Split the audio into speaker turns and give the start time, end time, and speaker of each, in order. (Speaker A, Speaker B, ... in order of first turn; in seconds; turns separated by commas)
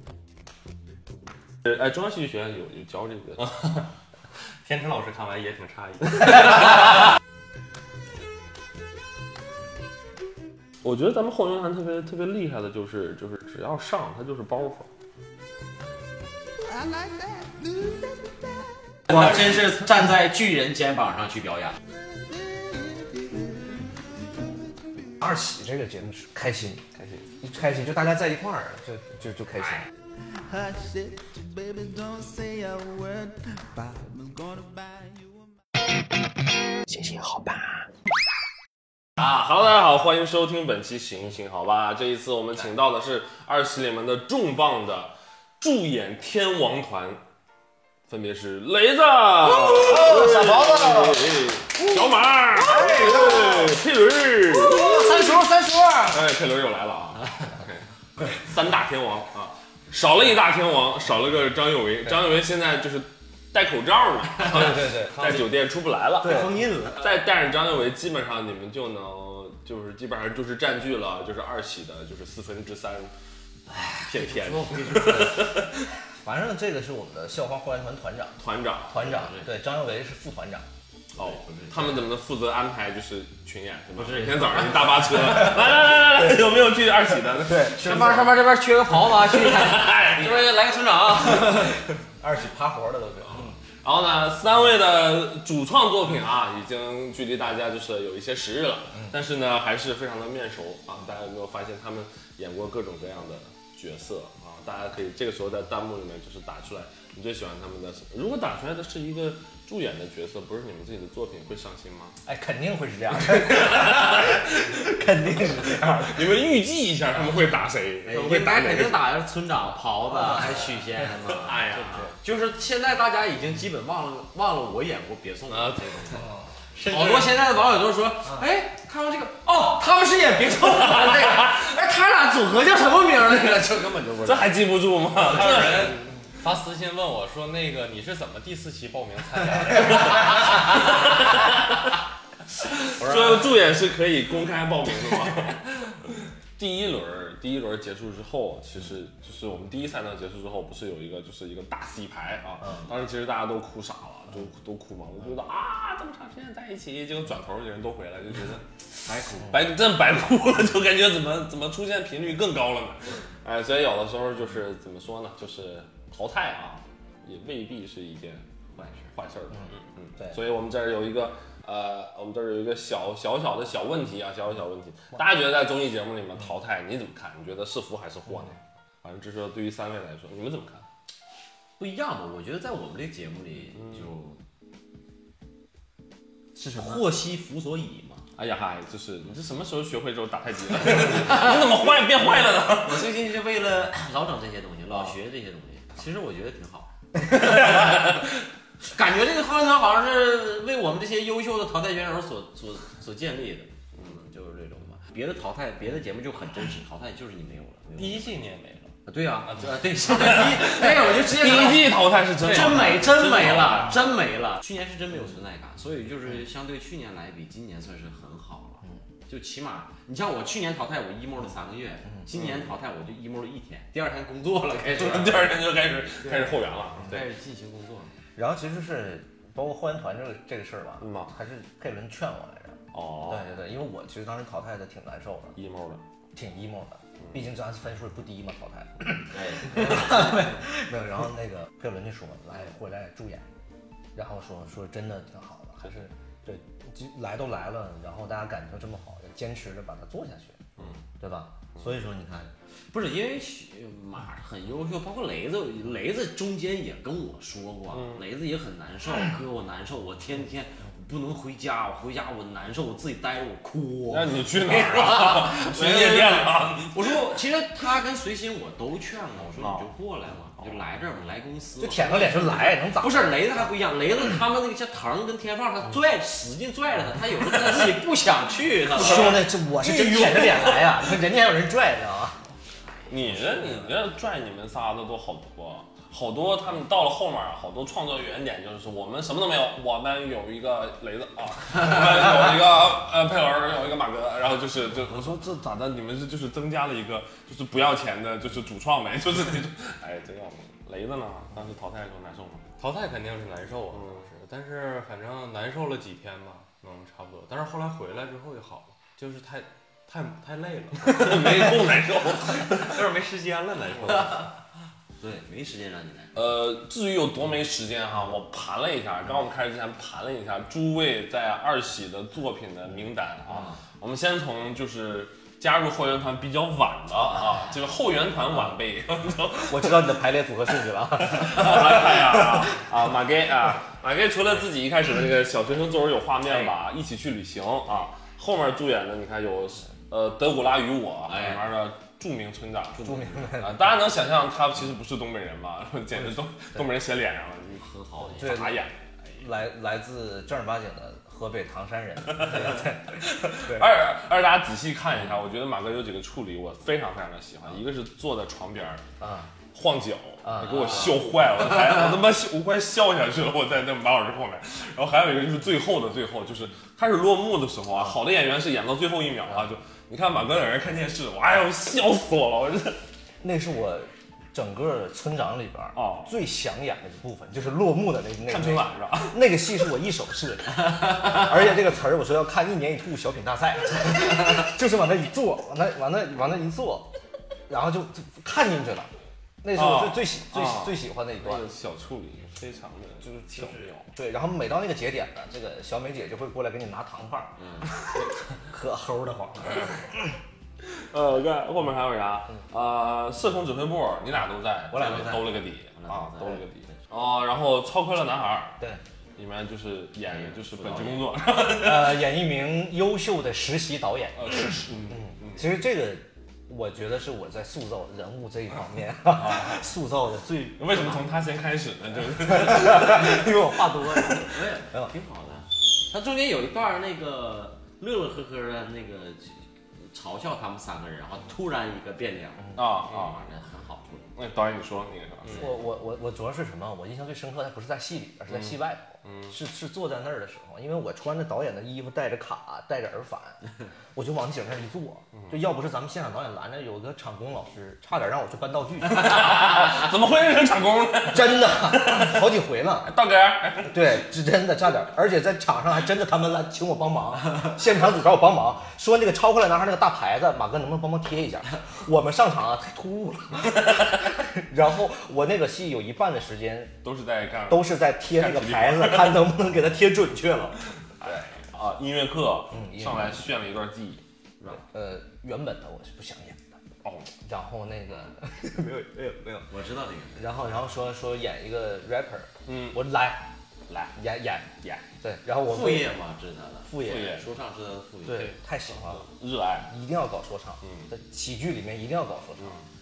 Speaker A: 1.6-3.9, Speaker B: 4.6-7.0, Speaker A: 10.8-14.9, Speaker C: 16.7-18.5, Speaker D: 19.1-21.8, Speaker C: 22.1-25.1, Speaker E: 25.2-26.8, Speaker A: 27.0-27.3, Speaker E: 27.4-29.9, Speaker C: 30.3-35.5, Speaker E: 36.9-37.8, Speaker A: 39.2-47.2, Speaker A: 48.1-55.0, Speaker E: 49.4-51.5, Speaker E: 52.6-53.8, Speaker E: 54.6-56.2, Speaker A: 56.1-73.1, Speaker E: 64.4-65.4, Speaker E: 66.2-66.7, Speaker D: 66.2-67.1, Speaker D: 73.7-75.5, Speaker A: 74.1-75.9, Speaker E: 76.1-80.7, Speaker A: 78.4-79.2, Speaker D: 79.0-79.5, Speaker D: 81.2-82.1, Speaker A: 81.2-88.3, Speaker D: 84.0-85.5, Speaker E: 87.3-88.4, Speaker D: 87.8-91.8, Speaker A: 89.0-90.5, Speaker E: 91.2-93.6, Speaker A: 93.8-112.2, Speaker E: 112.2-116.4, Speaker A: 113.5-114.5, Speaker A: 115.6-119.0, Speaker D: 118.1-134.6, Speaker E: 118.3-119.0, Speaker A: 121.3-122.1, Speaker B: 125.5-126.2, Speaker B: 126.9-127.4, Speaker A: 131.0-131.4, Speaker A: 134.2-136.0, Speaker D: 135.3-136.1, Speaker B: 135.3-140.6, Speaker A: 139.8-141.8, Speaker A: 142.6-145.7, Speaker E: 143.0-143.5, Speaker A: 146.6-158.7, Speaker D: 159.0-159.7, Speaker A: 159.3-168.4, Speaker D: 168.8-169.1, Speaker A: 169.1-180.9, Speaker D: 181.8-184.4, Speaker E: 186.6-187.0, Speaker D: 186.6-188.2, Speaker A: 188.4-193.2, Speaker D: 191.1-191.7, Speaker D: 192.6-196.9, Speaker D: 198.8-208.4, Speaker B: 208.0-208.9, Speaker D: 209.1-225.7, Speaker B: 209.5-209.8, Speaker A: 210.1-214.1, Speaker B: 212.4-213.8, Speaker A: 224.9-227.2, Speaker D: 226.2-228.1, Speaker E: 228.4-235.6, Speaker A: 231.0-231.3, Speaker A: 232.9-233.5, Speaker A: 235.6-236.0, Speaker E: 236.3-243.5, Speaker D: 239.3-240.5, Speaker E: 244.2-250.7, Speaker A: 250.8-251.0, Speaker E: 251.2-252.5, Speaker D: 252.9-280.6, Speaker A: 257.9-258.2, Speaker A: 264.1-267.2, Speaker A: 269.6-269.9, Speaker A: 270.6-270.8, Speaker E: 271.8-273.5, Speaker E: 278.9-282.4, Speaker A: 280.1-280.6, Speaker D: 282.6-284.0, Speaker A: 283.1-302.7, Speaker B: 302.8-311.8, Speaker A: 303.9-304.3, Speaker A: 311.1-313.0, Speaker B: 312.8-314.3, Speaker D: 313.7-314.6, Speaker D: 315.2-316.4, Speaker A: 316.4-330.1, Speaker D: 323.5-323.8, Speaker E: 329.7-332.7, Speaker A: 331.2-349.4, Speaker D: 336.5-336.7, Speaker D: 341.3-341.7, Speaker D: 343.0-343.5, Speaker E: 343.0-343.8, Speaker D: 347.8-348.7, Speaker E: 348.4-348.9, Speaker E: 349.4-353.9, Speaker A: 352.3-359.0, Speaker E: 359.2-359.5, Speaker A: 359.7-373.0, Speaker E: 360.4-361.1, Speaker D: 360.6-361.1, Speaker E: 373.4-387.1, Speaker A: 376.0-376.4, Speaker A: 378.5-379.4, Speaker E: 387.7-389.1, Speaker E: 389.6-391.7, Speaker A: 389.7-394.1, Speaker E: 393.6-400.4, Speaker D: 397.6-397.9, Speaker A: 400.9-408.8, Speaker E: 404.9-405.6, Speaker D: 405.9-407.0, Speaker A: 409.4-412.2, Speaker D: 410.3-411.4, Speaker E: 411.7-421.4, Speaker A: 414.4-415.7, Speaker A: 419.4-419.8, Speaker A: 420.8-423.7, Speaker E: 422.4-425.1, Speaker D: 424.4-434.3, Speaker A: 432.8-433.4, Speaker A: 434.4-435.8, Speaker E: 435.5-443.6, Speaker A: 438.5-439.6, Speaker E: 444.1-449.7, Speaker A: 449.1-452.5, Speaker E: 451.2-453.1, Speaker A: 453.0-454.2, Speaker E: 453.9-467.0, Speaker A: 467.0-469.5, Speaker E: 467.7-470.8, Speaker A: 471.2-474.8, Speaker E: 472.7-473.4, Speaker E: 474.7-476.8, Speaker A: 477.0-477.3, Speaker E: 477.4-479.7, Speaker D: 479.7-480.5, Speaker E: 480.4-483.5, Speaker A: 482.7-483.0, Speaker A: 483.9-484.1, Speaker E: 484.1-486.1, Speaker D: 485.6-488.6, Speaker E: 486.9-487.4, Speaker A: 487.0-487.5, Speaker E: 488.2-489.3, Speaker A: 488.3-489.9, Speaker E: 489.9-492.8, Speaker A: 490.8-491.1, Speaker A: 492.6-492.9